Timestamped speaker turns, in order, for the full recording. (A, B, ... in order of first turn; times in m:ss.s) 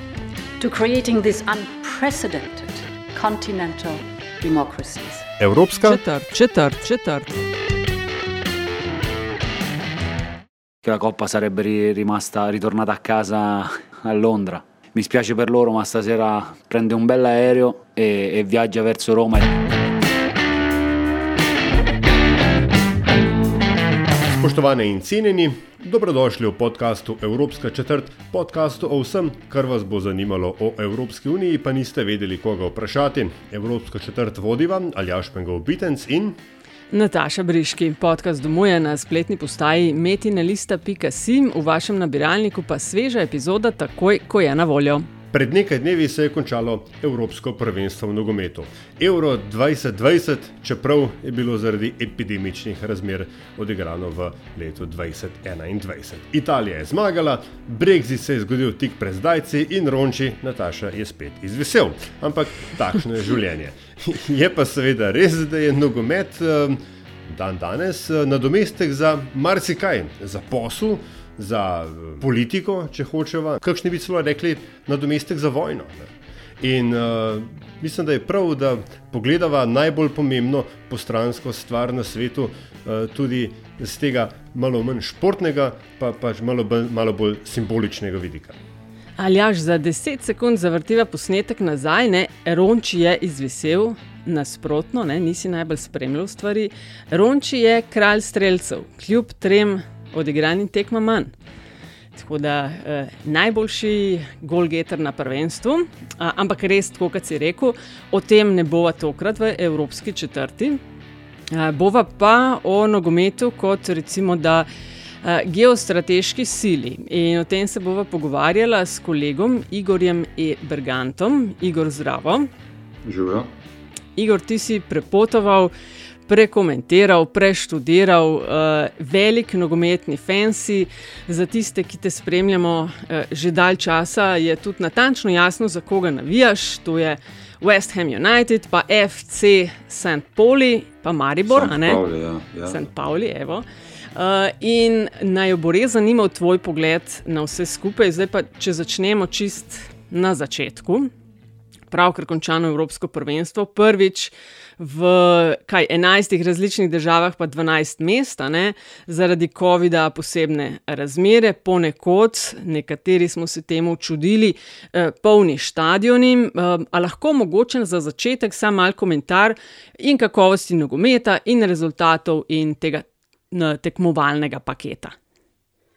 0:00.6-0:05.3 A
0:05.4-0:06.0 B
0:05.8-0:07.4 C
0:10.8-0:19.6 D
0:24.3-0:36.4 B
0:36.9-0:45.1 C
0:45.3-1:28.6 B
1:29.2-1:41.3 C
1:42.2-1:50.8 C
1:51.5-1:54.7 C
1:55.2-2:02.5 C
2:03.0-2:03.5 E
2:04.2-2:05.7 C
2:06.3-2:22.0 C
2:21.5-2:22.9 E
2:22.7-2:31.1 C
2:31.9-2:55.2 C